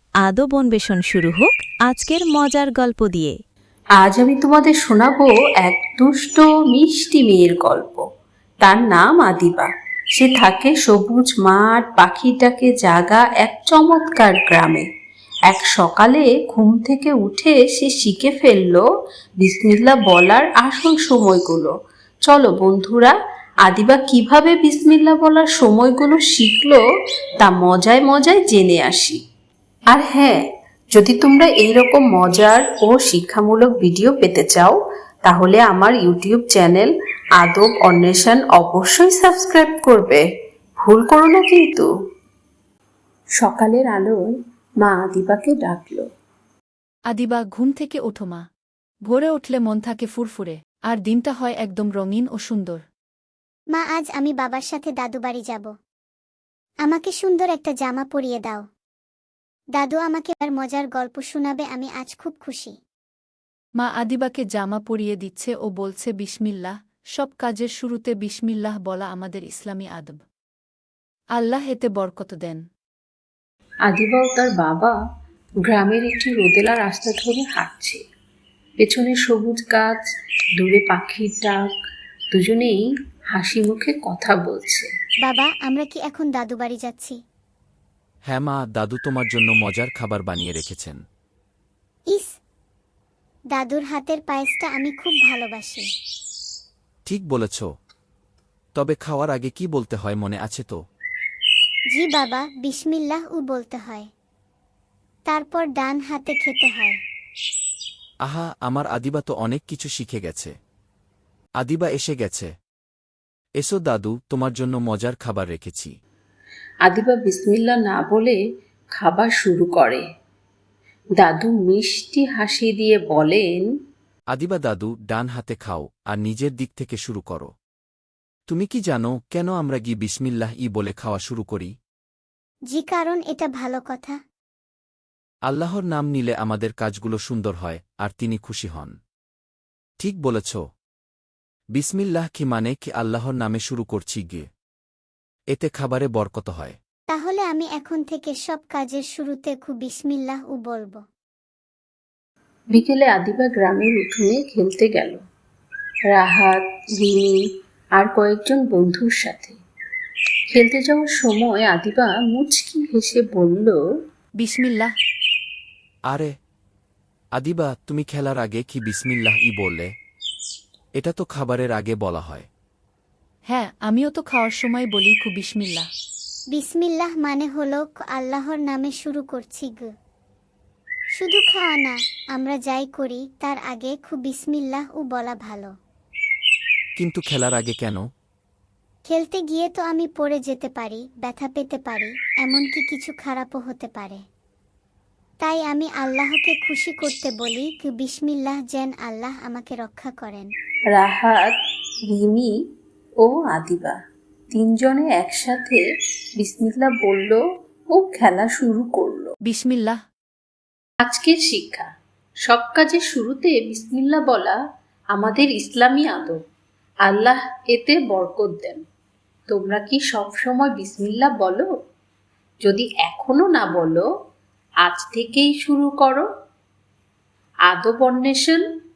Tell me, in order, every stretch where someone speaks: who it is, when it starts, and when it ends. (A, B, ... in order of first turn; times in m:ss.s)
0:00.2-0:03.4 A
0:04.0-0:08.0 B
0:08.6-0:14.8 B
0:15.5-0:18.8 B
0:19.4-0:21.7 B
0:22.2-0:26.8 B
0:27.4-0:29.2 B
0:29.9-0:30.4 B
0:30.9-0:40.2 B
0:40.8-0:41.9 B
0:43.4-0:44.3 B
0:44.8-0:46.1 B
0:47.1-0:48.4 C
0:49.1-0:52.8 C
0:53.7-0:55.7 D
0:56.8-0:58.6 D
0:59.7-1:02.8 D
1:03.8-1:10.2 C
1:11.3-1:12.6 C
1:13.8-1:14.9 B
1:15.6-1:18.0 B
1:18.8-1:20.0 B
1:20.6-1:21.7 B
1:22.3-1:24.9 B
1:25.2-1:27.2 D
1:28.3-1:31.0 E
1:33.5-1:35.9 D
1:37.0-1:37.7 E
1:38.8-1:40.8 E
1:41.9-1:44.1 D
1:45.3-1:47.0 D
1:48.2-1:50.5 E
1:51.6-1:52.5 E
1:53.6-1:55.9 E
1:56.8-1:58.4 B
1:58.9-2:00.0 B
2:01.2-2:03.6 B
2:04.3-2:07.5 E
2:08.5-2:11.7 E
2:12.7-2:14.2 D
2:15.4-2:18.9 E
2:20.0-2:20.6 E
2:21.7-2:24.5 E
2:25.5-2:26.8 E
2:27.1-2:31.0 D
2:32.7-2:35.2 B
2:36.1-2:37.4 B
2:38.0-2:39.6 B
2:40.5-2:43.8 B
2:44.4-2:44.9 C
2:47.4-2:49.9 E
2:51.0-2:52.5 E
2:53.5-2:55.9 C
2:56.5-2:59.9 D
3:01.1-3:05.7 D
3:07.0-3:08.0 E
3:09.1-3:14.2 D
3:15.4-3:20.5 D
3:20.9-3:21.5 B
3:22.1-3:22.5 B
3:23.2-3:24.0 B
3:24.5-3:25.8 B
3:26.4-3:27.4 B
3:27.9-3:29.3 B
3:29.4-3:30.0 C
3:31.0-3:31.9 B
3:32.4-3:34.6 B
3:35.1-3:36.4 B
3:37.0-3:38.8 B
3:39.5-3:41.7 B
3:42.6-3:44.0 B
3:44.8-3:46.2 B
3:47.6-3:48.6 B